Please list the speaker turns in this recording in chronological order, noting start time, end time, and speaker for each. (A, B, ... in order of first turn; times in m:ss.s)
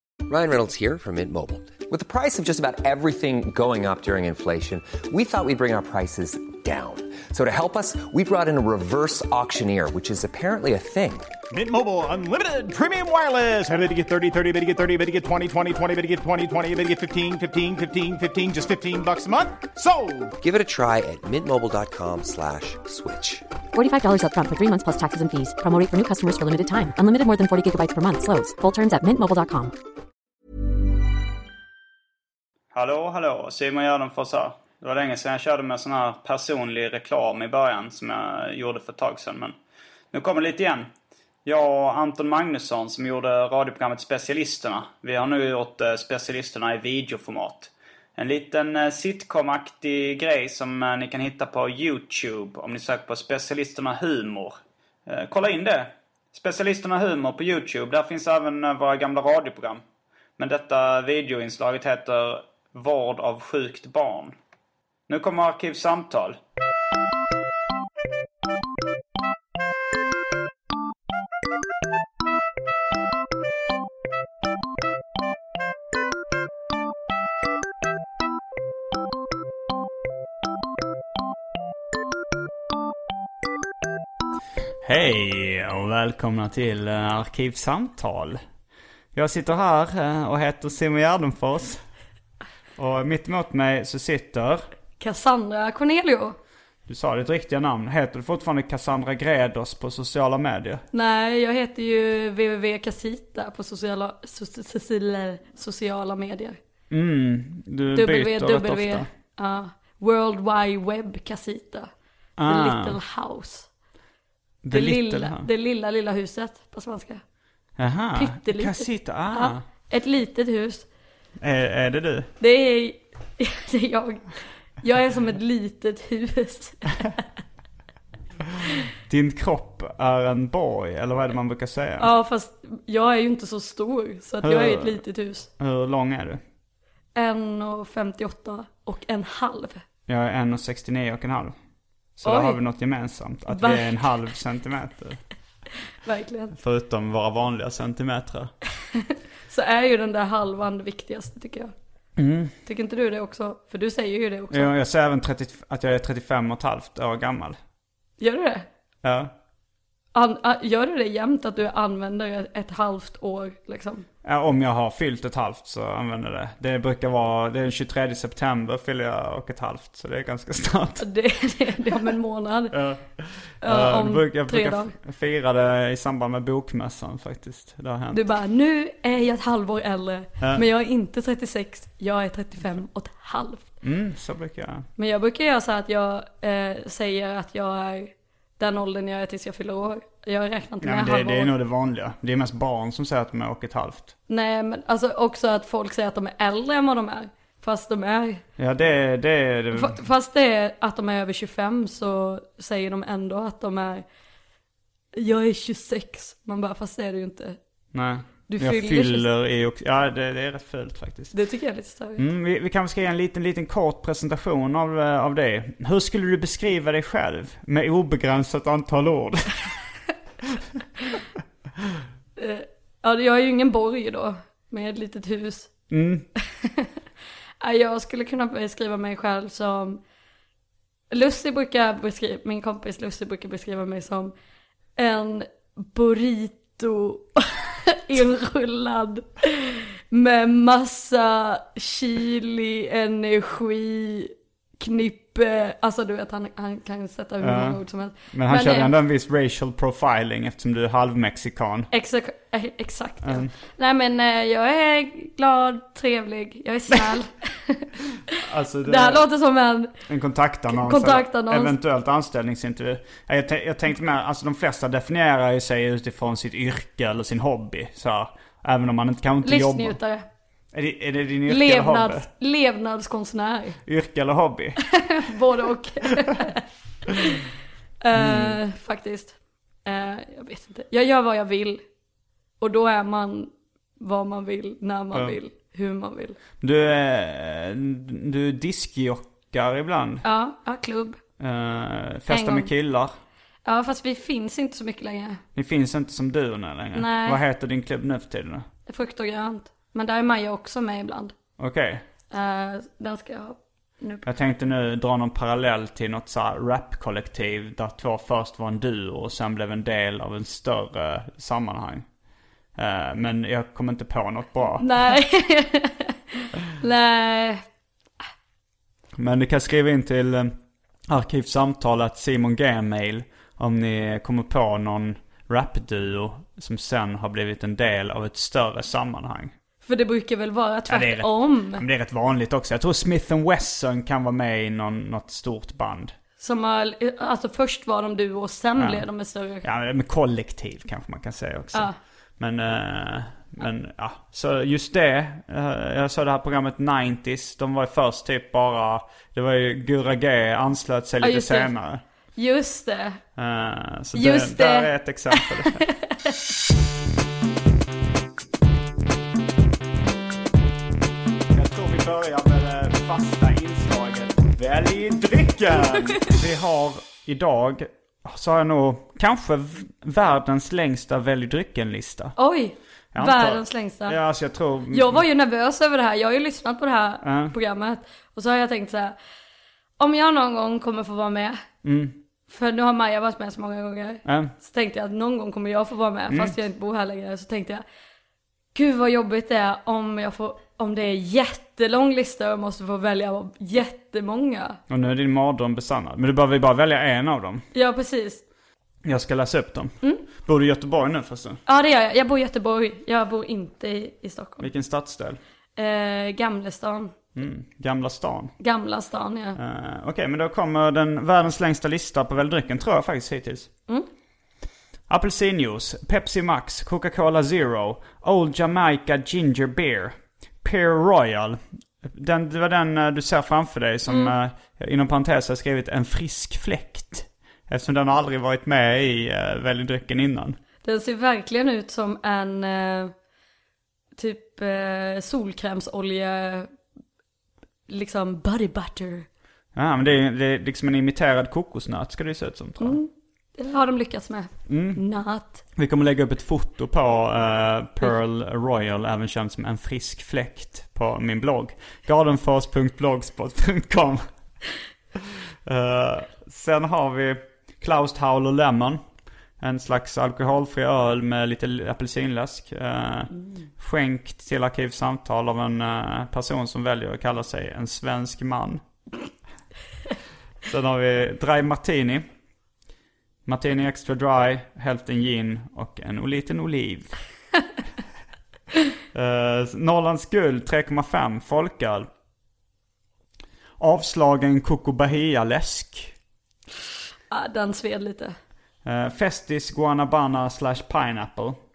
0:00.3-0:11.3 A
0:11.5-0:20.3 B
0:20.4-0:23.4 A
0:23.7-0:29.7 C
0:32.7-0:39.5 D
0:40.1-0:40.9 D
0:41.4-0:59.8 D
1:00.4-1:04.3 D
1:05.1-1:06.4 D
1:24.8-1:28.4 D
1:29.1-1:31.8 D
1:32.8-1:34.7 D
1:35.0-1:36.4 E
1:36.8-1:40.8 D
1:40.9-1:46.6 E
1:46.9-1:49.1 D
1:47.9-1:51.9 E
1:52.4-1:53.0 D
1:52.4-1:53.7 E
1:54.6-1:55.5 D
1:54.7-1:57.2 E
1:57.8-1:59.6 D
1:58.2-2:00.8 E
2:01.4-2:02.3 D
2:02.4-2:04.3 E
2:04.8-2:07.2 E
2:09.0-2:12.1 D
2:12.0-2:15.5 E
2:14.4-2:15.0 D
2:15.6-2:16.4 D
2:17.1-2:19.8 E
2:20.1-2:21.5 D
2:22.2-2:25.2 D
2:22.2-2:22.6 E
2:23.5-2:24.0 E
2:26.0-2:26.6 E
2:26.6-2:28.5 D
2:29.5-2:31.7 E
2:32.2-2:32.5 D
2:32.6-2:34.7 E
2:34.5-2:37.6 D
2:38.2-2:38.6 E
2:39.0-2:39.3 D
2:40.1-2:44.0 E
2:44.2-2:51.0 D
2:51.0-2:52.7 E
2:52.7-2:58.2 D
2:53.6-2:54.9 E
2:58.1-3:03.7 E
3:00.4-3:00.6 D
3:03.8-3:04.9 D
3:05.0-3:11.5 E
3:10.8-3:14.1 D
3:14.3-3:18.4 E
3:18.6-3:20.0 D
3:19.7-3:24.0 E
3:25.2-3:27.6 E
3:27.9-3:31.3 D
3:28.5-3:29.2 E
3:31.3-3:32.2 E
3:32.2-3:39.7 D
3:42.4-3:45.7 E
3:45.9-3:46.2 D
3:46.5-3:46.9 E
3:47.6-3:50.0 E
3:51.1-3:54.3 E
3:55.0-4:08.9 E
4:07.4-4:11.9 D
4:11.9-4:17.9 E
4:13.2-4:13.5 D
4:18.3-4:19.2 D
4:18.8-4:19.9 E
4:20.1-4:30.0 D
4:20.7-4:21.7 E
4:29.4-4:30.2 E
4:30.7-4:32.3 D
4:31.5-4:33.8 E
4:33.8-4:34.8 D
4:34.8-4:37.4 E
4:38.0-4:41.8 E
4:38.1-4:38.6 D
4:42.6-4:46.4 E
4:45.1-4:45.4 D
4:46.6-4:50.2 D
4:50.2-4:51.2 E
4:51.4-4:53.1 D
4:52.3-4:52.7 E
4:53.6-4:55.4 E
4:55.6-4:58.7 D
4:56.9-4:57.4 E
4:58.9-5:01.3 E
5:01.6-5:02.0 D
5:02.3-5:04.3 E
5:04.2-5:12.0 D
5:12.8-5:15.1 D
5:14.8-5:17.6 E
5:19.1-5:20.5 D
5:21.1-5:29.5 D
5:29.8-5:31.8 E
5:30.9-5:36.1 D
5:36.4-5:39.6 E
5:38.8-5:39.1 D
5:39.6-5:52.0 D
5:51.2-5:51.7 E
5:52.3-5:53.2 E
5:53.4-5:55.8 D
5:54.1-5:56.3 E
6:01.5-6:12.3 D
6:05.9-6:06.3 E
6:12.4-6:14.2 E
6:13.1-6:15.2 D
6:14.9-6:19.1 E
6:17.2-6:17.5 D
6:20.0-6:21.6 E
6:21.8-6:22.2 D
6:22.5-6:27.8 E
6:24.2-6:24.5 D
6:26.3-6:26.6 D
6:28.7-6:34.8 E
6:34.9-6:37.6 D
6:37.7-6:38.4 E
6:39.0-6:41.6 D
6:41.6-6:44.7 E
6:44.6-6:45.4 D
6:45.8-6:47.1 E
6:47.3-6:48.5 D
6:48.6-6:49.6 E
6:49.6-6:53.7 D
6:55.1-7:10.6 D
7:04.1-7:04.3 E
7:10.8-7:13.1 E
7:14.2-7:16.7 E
7:17.9-7:19.3 E
7:19.7-7:23.0 D
7:22.8-7:25.6 E
7:24.7-7:25.0 D
7:25.8-7:34.3 D
7:35.6-7:39.0 D
7:39.6-7:48.8 D
7:50.6-7:52.3 D
7:53.4-7:57.1 D
7:59.1-8:02.1 D
8:03.8-8:06.1 D
8:07.3-8:08.3 E
8:08.8-8:11.6 D